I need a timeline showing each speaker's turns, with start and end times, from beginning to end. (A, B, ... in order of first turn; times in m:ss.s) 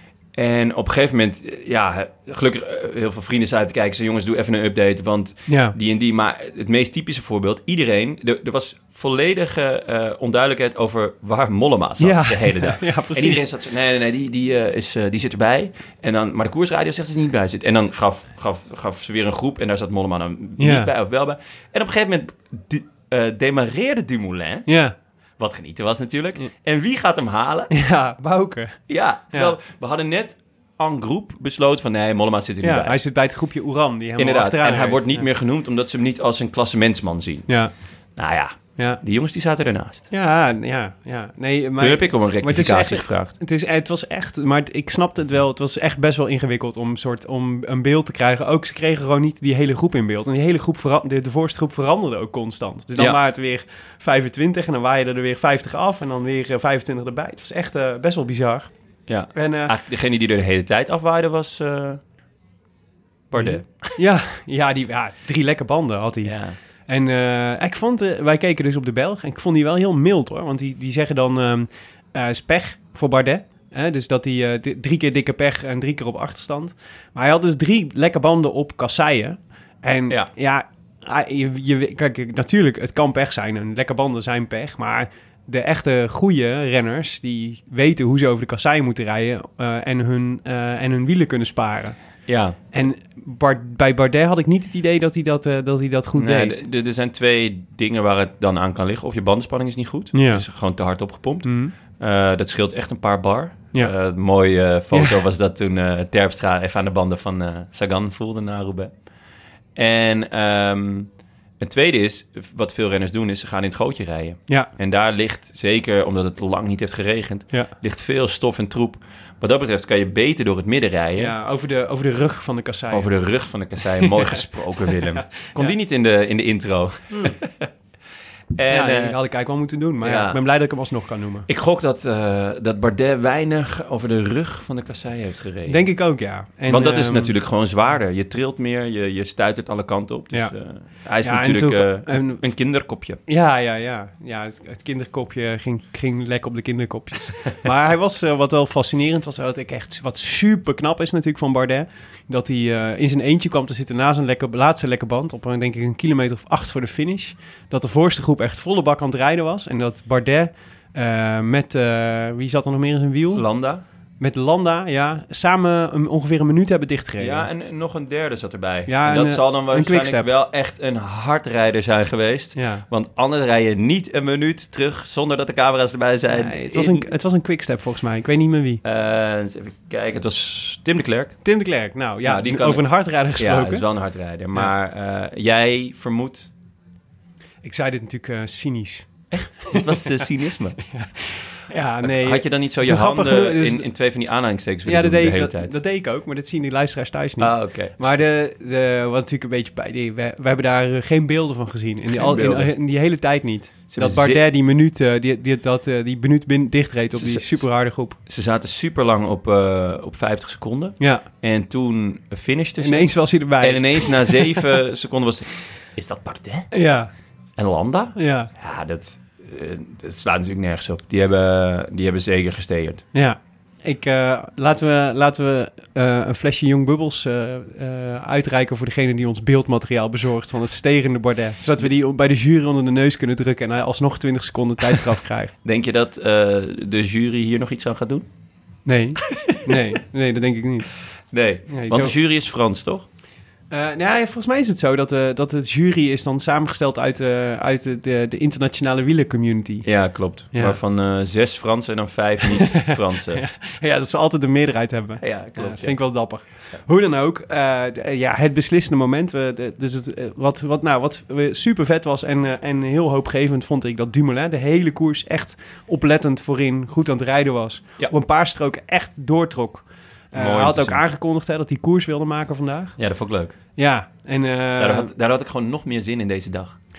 0:00.4-0:24.7 A
0:05.5-0:05.7 B
0:12.0-0:13.4 B
0:20.6-0:20.9 B
0:24.7-0:25.0 B
0:25.4-0:27.7 A
0:27.7-0:28.8 B
0:28.9-0:33.0 A
0:32.6-0:35.2 B
0:34.2-0:40.1 A
0:37.5-0:37.7 B
0:40.1-0:58.7 B
0:41.8-0:43.3 A
0:59.1-1:02.0 A
0:59.3-0:59.7 B
1:03.3-1:04.0 A
1:03.4-1:32.0 B
1:06.2-1:06.6 A
1:32.3-1:32.6 A
1:32.7-1:36.6 B
1:36.2-1:48.9 A
1:40.1-1:40.4 B
1:41.4-1:41.7 B
1:44.9-1:45.2 B
1:49.8-1:51.1 A
1:51.6-2:01.3 A
2:01.2-2:03.1 B
2:02.9-2:07.7 A
2:04.0-2:04.4 B
2:05.1-2:05.8 B
2:07.1-2:07.4 B
2:08.6-2:09.2 A
2:08.7-2:11.5 B
2:10.0-2:10.4 A
2:11.5-2:16.2 A
2:15.7-2:17.3 B
2:16.7-2:23.2 A
2:21.2-2:22.5 B
2:23.3-2:43.5 B
2:43.3-2:43.8 A
2:44.2-2:47.5 B
2:47.2-2:57.1 A
2:48.9-2:50.3 B
2:52.6-2:52.8 B
2:56.3-2:58.8 B
2:58.8-3:01.6 A
3:01.4-3:03.8 B
3:02.2-3:06.5 A
3:07.6-3:09.1 B
3:09.3-3:10.8 A
3:09.7-3:10.0 B
3:10.9-3:13.9 B
3:12.0-3:15.7 A
3:14.8-3:28.2 B
3:17.4-3:18.0 A
3:22.1-3:22.7 A
3:23.9-3:24.4 A
3:27.2-3:36.7 A
3:31.0-3:31.2 B
3:32.8-3:34.6 B
3:36.7-3:37.1 B
3:37.6-3:43.1 A
3:38.2-3:38.5 B
3:43.1-3:55.5 B
3:55.6-3:58.3 A
3:58.9-4:00.9 B
3:59.3-3:59.8 A
4:01.3-4:03.1 A
4:01.7-4:02.1 B
4:03.7-4:09.9 B
4:09.8-4:13.4 A
4:10.5-4:10.8 B
4:13.4-4:33.0 B
4:15.2-4:16.8 A
4:30.3-4:31.0 A
4:33.0-4:33.6 A
4:33.8-4:35.1 B
4:34.8-4:36.8 A